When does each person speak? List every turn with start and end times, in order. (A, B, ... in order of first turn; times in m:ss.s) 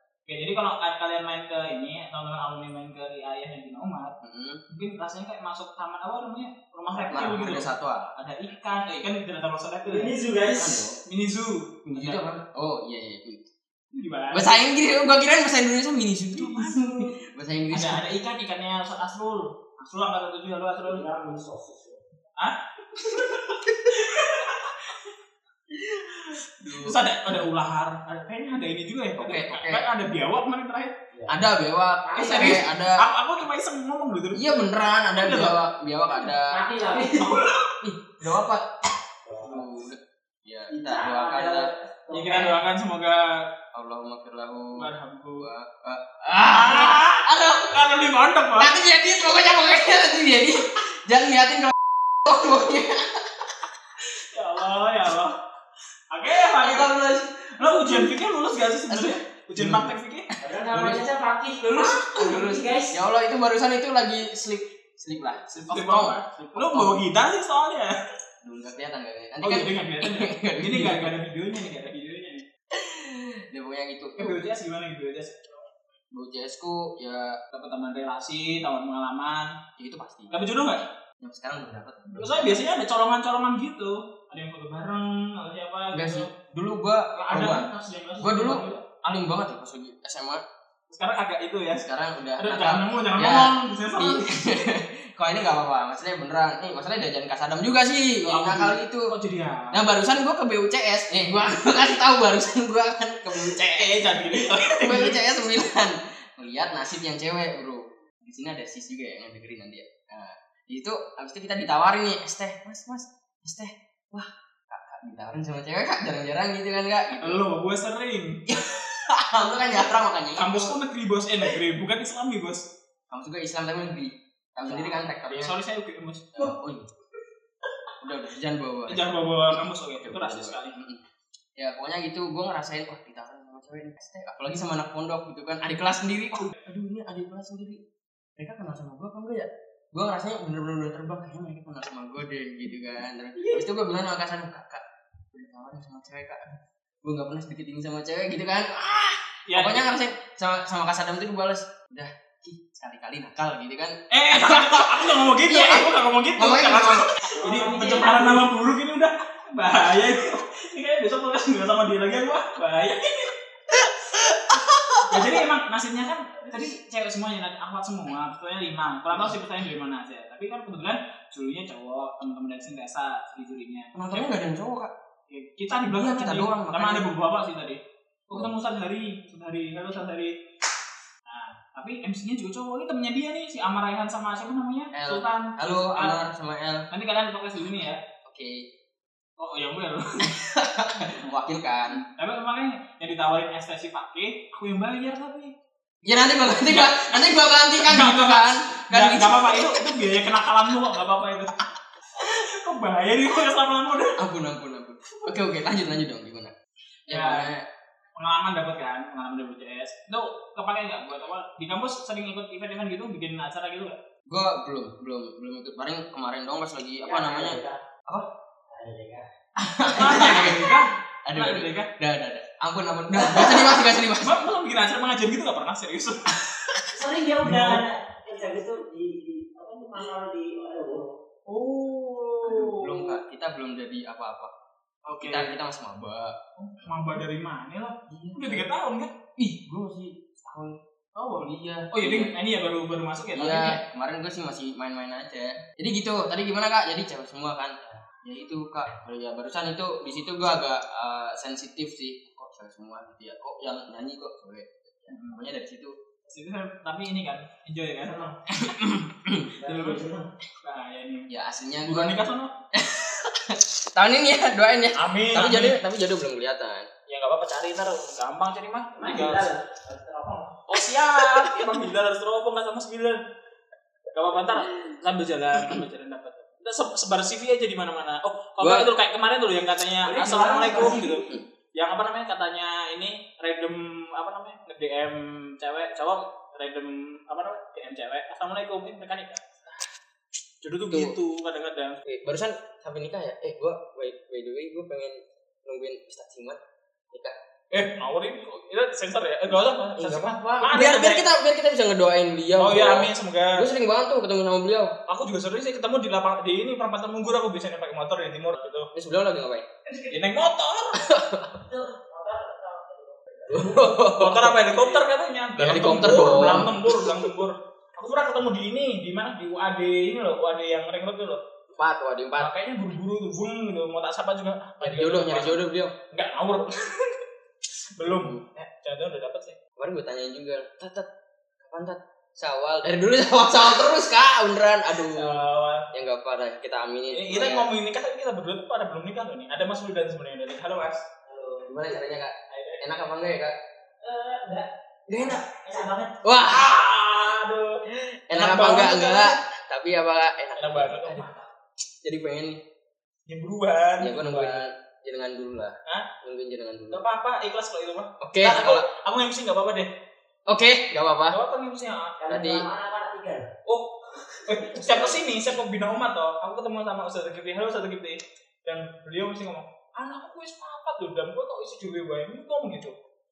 0:00.3-0:04.2 A
0:04.2-0:04.6 B
0:04.7-0:10.1 A
0:07.0-0:08.1 B
0:09.9-0:10.8 C
0:10.5-0:11.0 B
0:11.0-0:12.2 A
0:11.9-0:13.5 B
0:13.9-0:14.5 A
0:14.3-0:18.0 B
0:16.3-0:17.2 A
0:17.7-0:21.1 A
0:20.9-0:22.0 C
0:22.4-0:25.0 A
0:25.8-0:27.0 B
0:26.7-0:30.9 A
0:29.2-0:29.8 B
0:31.1-0:31.5 C
0:31.3-0:33.0 B
0:32.0-0:32.7 C
0:32.2-0:34.4 A
0:34.3-0:36.6 B
0:35.2-0:35.6 A
0:36.2-0:37.4 C
0:37.2-0:37.7 A
0:37.8-0:38.7 B
0:39.3-0:39.7 C
0:39.4-0:41.7 B
0:40.7-0:42.6 C
0:42.1-0:43.4 A
0:43.7-0:47.7 B
0:44.7-0:45.5 A
0:46.4-0:48.8 A
0:48.6-0:51.7 B
0:52.2-0:53.5 B
0:54.2-0:55.4 A
0:56.1-0:57.0 A
0:56.5-0:58.2 B
0:57.5-1:00.3 A
0:58.9-0:59.9 B
1:00.4-1:03.0 C
1:00.7-1:01.1 B
1:01.8-1:07.0 B
1:05.6-1:08.0 A
1:08.4-1:11.1 B
1:09.4-1:12.4 A
1:12.7-1:14.5 B
1:14.2-1:15.7 A
1:16.1-1:17.4 B
1:17.5-1:19.5 A
1:19.8-1:20.5 B
1:20.3-1:20.9 A
1:21.2-1:22.6 B
1:22.1-1:26.3 A
1:25.9-1:27.7 B
1:27.1-1:28.8 A
1:28.2-1:30.4 B
1:30.9-1:31.9 A
1:31.8-1:39.1 B
1:32.4-1:34.3 A
1:38.2-1:39.8 A
1:39.7-1:57.4 B
1:43.7-1:45.2 A
1:57.2-1:58.4 A
1:58.5-2:00.8 B
2:00.4-2:02.7 A
2:03.1-2:05.6 B
2:04.6-2:06.5 A
2:06.4-2:06.9 B
2:08.0-2:17.8 B
2:08.9-2:10.8 A
2:18.4-2:37.3 B
2:29.5-2:29.9 A
2:34.1-2:43.3 A
2:37.4-2:38.4 C
2:44.5-2:45.4 B
2:45.0-2:54.4 A
2:53.9-2:54.9 B
2:55.3-3:00.3 A
2:55.9-2:57.0 B
3:01.3-3:06.2 A
3:04.9-3:06.9 B
3:06.9-3:08.0 A
3:08.2-3:08.7 B
3:09.4-3:10.4 A
3:10.2-3:12.0 B
3:11.1-3:15.6 A
3:16.0-3:19.9 B
3:16.6-3:24.2 A
3:24.2-3:26.5 B
3:27.1-3:27.7 B
3:27.1-3:27.5 A
3:28.2-3:34.0 A
3:34.3-3:38.3 B
3:37.0-3:37.8 C
3:38.7-3:39.3 C
3:39.6-3:44.4 B
3:39.8-3:41.9 A
3:43.2-3:43.8 C
3:44.2-3:46.4 A
3:46.9-3:51.2 C
3:47.4-3:47.8 A
3:51.5-3:53.2 A
3:52.4-3:54.5 B
3:55.1-3:55.5 A
3:55.2-3:56.4 B
3:56.6-3:59.1 A
3:58.1-3:58.6 B
3:59.4-4:00.8 B
4:01.2-4:03.8 A
4:01.3-4:02.4 B
4:03.3-4:16.0 B
4:15.1-4:15.4 A
4:16.3-4:19.1 A
4:18.0-4:18.4 C
4:19.3-4:19.5 B
4:19.6-4:20.3 C
4:19.7-4:20.0 A
4:20.6-4:21.3 A
4:21.3-4:22.2 B
4:21.8-4:22.5 A
4:22.7-4:26.9 B
4:25.0-4:25.8 A
4:27.1-4:29.5 A
4:29.0-4:30.6 C
4:30.7-4:33.2 A
4:30.7-4:31.7 B
4:34.1-4:49.4 A
4:38.6-4:38.9 B
4:40.0-4:41.2 C
4:50.6-4:52.0 A
4:50.9-4:51.2 B
4:52.0-4:56.6 B
4:57.7-5:01.3 A
5:00.0-5:05.0 B
5:02.6-5:03.7 A
5:05.1-5:08.9 A
5:08.9-5:09.7 B
5:09.9-5:10.1 C
5:10.1-5:11.0 A
5:11.0-5:11.6 B
5:11.5-5:13.8 C
5:13.5-5:15.0 B
5:14.2-5:21.4 A
5:15.6-5:17.4 B
5:21.7-5:22.5 B
5:22.4-5:27.2 A
5:24.8-5:26.0 B
5:28.0-5:29.6 A
5:28.0-5:28.4 B
5:29.8-5:31.1 B
5:31.6-5:37.7 B
5:35.1-5:35.9 A
5:37.1-5:41.0 A
5:41.3-5:41.8 C
5:41.7-5:43.6 B
5:42.5-5:42.8 A
5:44.0-5:46.2 C
5:45.1-5:45.4 B
5:46.2-5:46.8 B
5:46.4-5:49.4 A
5:47.9-5:51.3 B
5:50.6-5:51.5 A
5:52.0-5:52.6 B
5:53.3-5:54.6 A
5:54.0-5:57.0 B
5:56.9-5:59.9 A
5:58.2-5:58.9 B
6:00.5-6:01.4 B
6:01.3-6:02.2 A
6:02.2-6:03.5 C
6:02.3-6:02.7 B
6:03.7-6:12.9 A
6:04.8-6:05.6 B